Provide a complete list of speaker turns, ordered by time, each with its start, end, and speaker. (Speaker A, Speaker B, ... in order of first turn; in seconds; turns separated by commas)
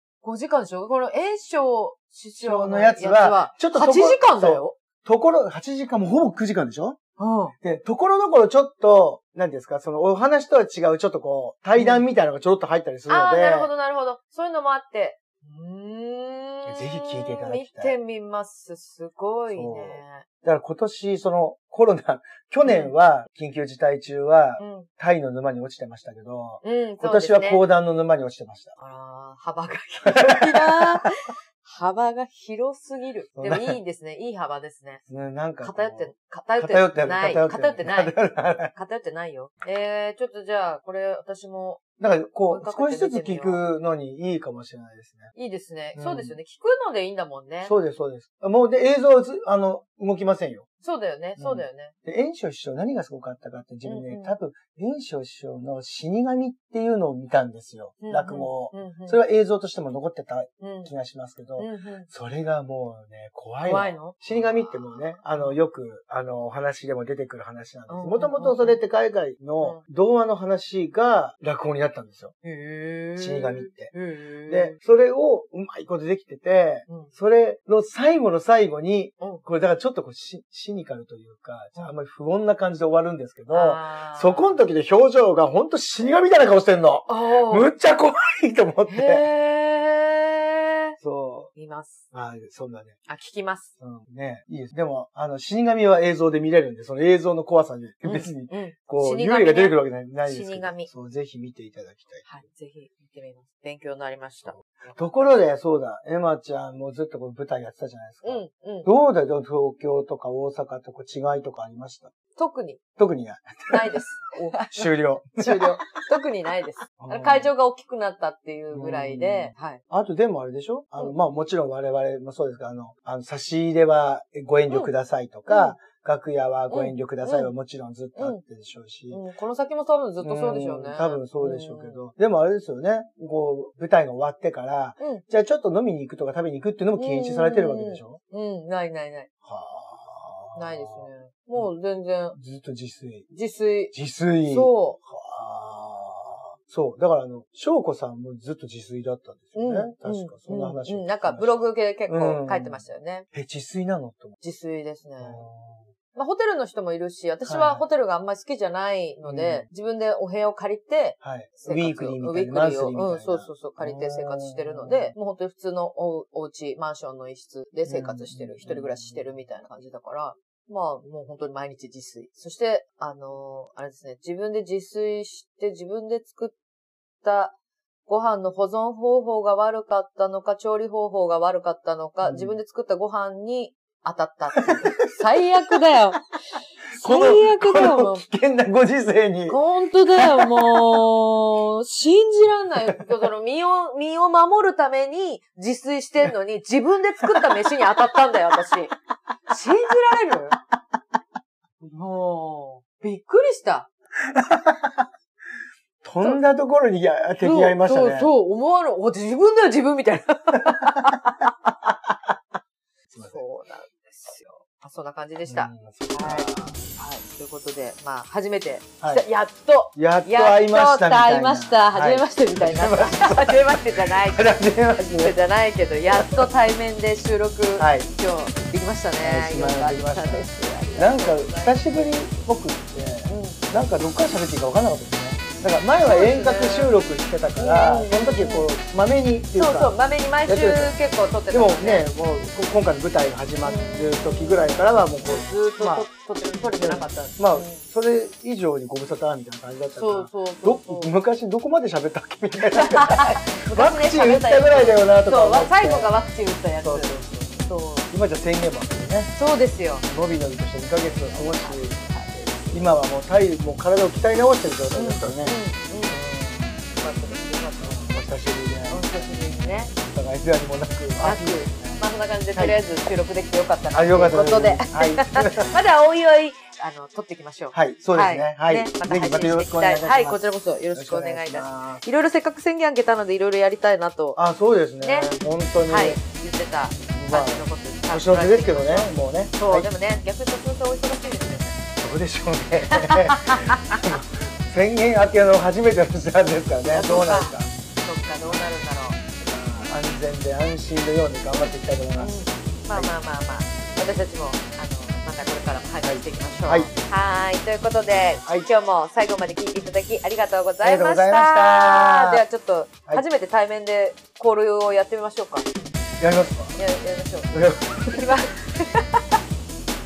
Speaker A: 0.2-4.8, Speaker B: 2.4-7.0, Speaker A: 7.2-7.5, Speaker B: 7.6-13.7, Speaker A: 11.8-12.1, Speaker A: 13.1-20.2, Speaker B: 16.6-17.9, Speaker B: 19.5-28.7, Speaker A: 22.6-22.9, Speaker A: 24.6-24.9, Speaker A: 26.6-27.6, Speaker A: 28.8-35.0, Speaker B: 30.0-31.1, Speaker B: 33.4-33.8, Speaker B: 35.1-38.7, Speaker A: 35.6-38.1, Speaker A: 38.7-41.9, Speaker B: 42.0-45.3, Speaker A: 42.5-43.6, Speaker A: 45.3-47.7, Speaker B: 46.0-46.3, Speaker B: 47.6-50.6, Speaker A: 50.8-51.9, Speaker B: 51.4-72.3, Speaker A: 53.8-54.3, Speaker A: 58.0-59.2, Speaker A: 60.6-60.9, Speaker A: 61.6-62.1, Speaker A: 63.6-64.6, Speaker A: 67.9-68.8, Speaker A: 72.4-74.8, Speaker B: 73.2-73.9, Speaker B: 74.5-89.2, Speaker A: 83.5-84.6, Speaker A: 87.1-87.7, Speaker A: 88.9-91.0, Speaker B: 91.0-91.5, Speaker A: 91.5-92.1, Speaker B: 92.1-93.0, Speaker A: 93.1-93.7, Speaker B: 93.8-102.2, Speaker A: 98.0-100.9, Speaker A: 102.2-104.9, Speaker B: 104.5-112.1, Speaker A: 108.2-108.9, Speaker A: 112.3-112.8, Speaker B: 113.0-116.0, Speaker A: 113.7-119.8, Speaker B: 117.0-117.5, Speaker B: 118.7-129.2, Speaker A: 125.5-125.8, Speaker A: 126.7-127.5, Speaker A: 129.1-132.0, Speaker B: 130.2-138.2, Speaker A: 137.0-139.3, Speaker B: 139.4-141.7, Speaker A: 140.5-142.4, Speaker B: 142.3-143.3, Speaker A: 143.3-143.9, Speaker B: 143.9-154.4, Speaker A: 144.4-145.0, Speaker A: 149.5-153.2, Speaker A: 154.4-155.4, Speaker B: 155.2-155.9, Speaker A: 156.1-176.6, Speaker B: 157.4-157.8, Speaker B: 159.2-159.7, Speaker B: 161.2-165.1, Speaker B: 167.8-169.3, Speaker A: 177.2-177.5, Speaker A: 178.1-186.3, Speaker B: 182.2-182.6, Speaker B: 184.6-185.1, Speaker A: 186.9-188.2, Speaker B: 186.9-189.6, Speaker A: 189.5-198.9, Speaker B: 190.1-191.1, Speaker B: 192.8-193.2, Speaker B: 197.2-198.8, Speaker A: 199.5-200.6, Speaker B: 199.5-200.3, Speaker A: 201.8-203.9, Speaker B: 204.2-205.1, Speaker B: 206.0-208.3, Speaker A: 207.4-211.5, Speaker B: 210.7-211.1, Speaker B: 211.7-212.3, Speaker B: 213.1-213.4, Speaker A: 213.2-224.6, Speaker B: 215.4-216.8, Speaker B: 219.9-225.3, Speaker A: 225.2-232.4, Speaker B: 226.1-226.5, Speaker B: 227.8-228.1, Speaker B: 229.2-240.9, Speaker A: 233.2-233.6, Speaker A: 236.0-236.9, Speaker A: 237.6-238.7, Speaker A: 239.5-242.1, Speaker B: 241.5-256.1, Speaker A: 243.6-247.8, Speaker A: 249.9-251.1, Speaker A: 252.7-258.1, Speaker B: 256.8-259.3, Speaker A: 259.4-260.0, Speaker B: 260.0-262.0, Speaker A: 261.1-262.9, Speaker B: 262.7-266.9, Speaker A: 264.9-266.2, Speaker A: 266.9-268.1, Speaker B: 267.8-272.0, Speaker A: 268.9-269.9, Speaker A: 271.2-284.4, Speaker B: 273.9-275.8, Speaker B: 277.7-282.0, Speaker B: 284.4-286.2, Speaker A: 285.0-285.3, Speaker A: 285.9-291.8, Speaker B: 287.1-289.9, Speaker B: 292.0-297.7, Speaker A: 292.9-294.0, Speaker A: 296.9-299.2, Speaker B: 298.4-298.8, Speaker B: 299.4-303.1, Speaker A: 301.5-315.7, Speaker B: 306.0-306.9, Speaker B: 308.4-308.7, Speaker B: 310.8-312.4, Speaker B: 316.2-316.8, Speaker A: 316.7-319.2, Speaker B: 317.5-318.4